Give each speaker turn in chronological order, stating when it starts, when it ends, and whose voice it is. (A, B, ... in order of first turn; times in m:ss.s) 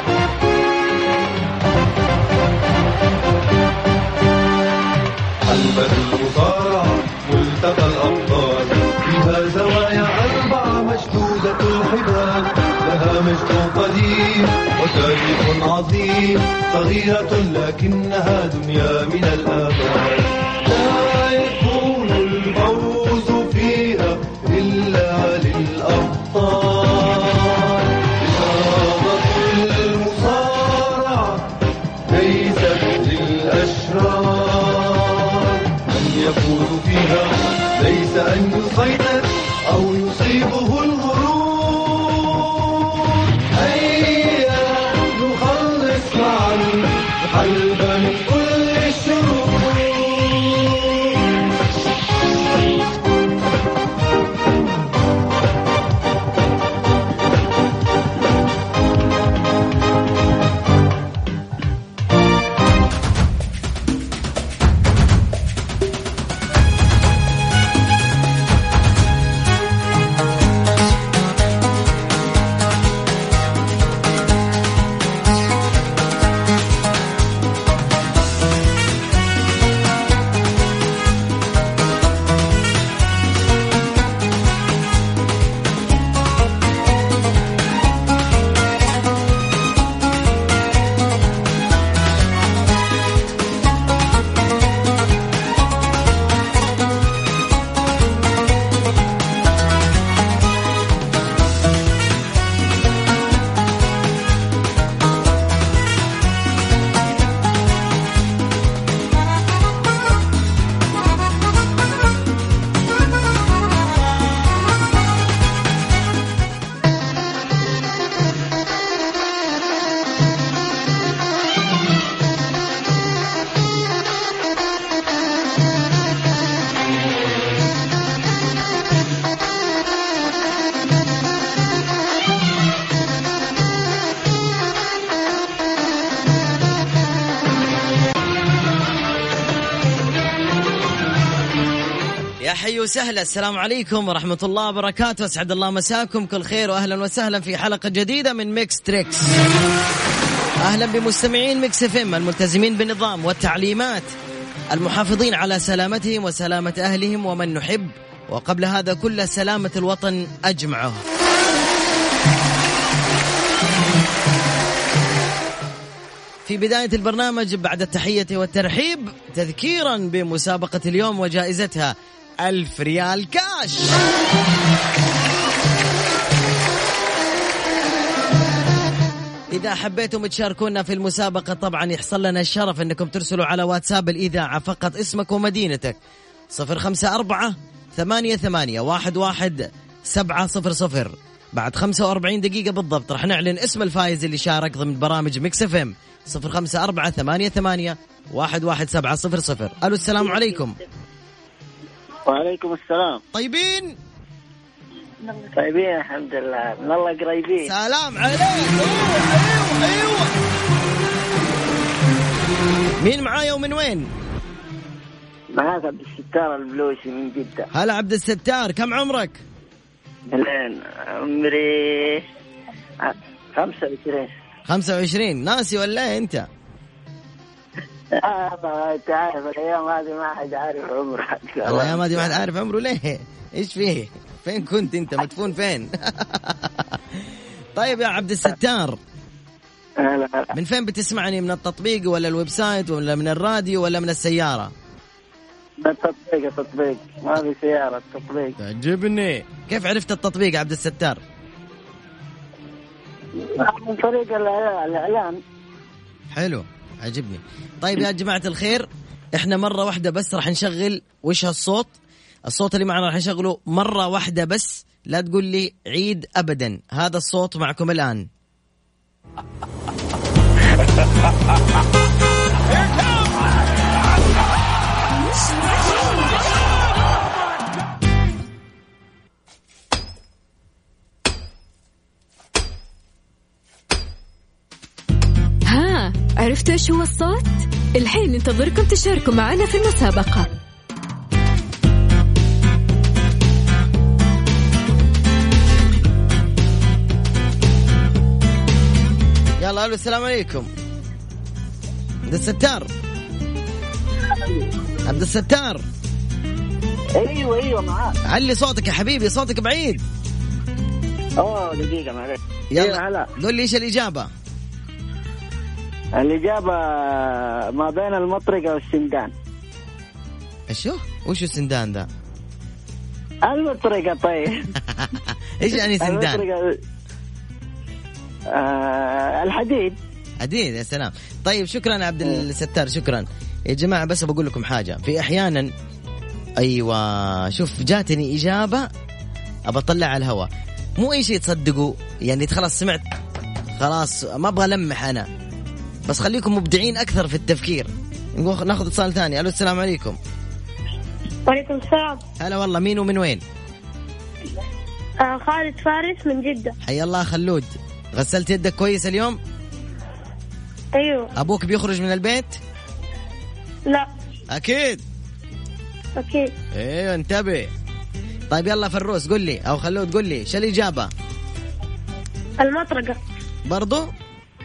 0:05.4-0:31.5 A
0:32.1-0:51.2 A
2:22.4-2:29.4 B
2:30.6-2:34.1 B
2:34.7-2:41.0 B
2:46.4-2:54.0 B
2:59.5-3:06.0 B
3:06.5-3:20.8 B
3:22.3-3:23.2 C
3:23.3-3:24.0 B
3:25.6-3:27.7 C
3:27.6-3:30.4 B
3:33.0-3:34.1 B
3:35.5-3:37.7 C
3:37.7-3:39.4 B
3:40.3-3:42.2 C
3:43.0-3:44.3 C
3:44.7-3:46.5 B
3:48.2-3:52.4 C
3:51.7-3:57.2 B
3:57.7-3:59.0 B
4:00.0-4:00.5 C
4:00.5-4:04.7 B
4:05.8-4:08.5 C
4:08.6-4:11.2 B
4:13.6-4:15.4 C
4:16.3-4:21.9 B
4:22.5-4:28.3 B
4:45.7-4:50.5 D
4:59.6-5:00.7 B
5:02.3-5:02.9 B
5:05.0-5:05.8 B
5:07.2-5:08.2 C
5:08.2-5:10.0 B
5:11.4-5:13.3 C
5:12.7-5:14.3 B
5:16.2-5:19.3 C
5:20.7-5:22.1 B
5:23.5-5:24.7 C
5:24.9-5:26.4 B
5:26.0-5:26.6 C
5:28.5-5:30.0 C
5:30.4-5:35.7 B
5:36.6-5:38.9 B
5:39.7-5:43.1 B
5:43.8-5:45.3 B
5:46.0-5:50.2 B
5:51.5-5:52.2 E
5:52.4-5:53.4 B
5:55.2-5:56.7 E
5:56.8-5:59.4 B
6:00.9-6:01.3 E
6:01.4-6:02.6 B
6:04.5-6:05.0 B
6:06.2-6:06.5 E
6:06.7-6:07.7 B
6:08.5-6:11.1 B
6:12.6-6:13.2 E
6:13.7-6:14.1 B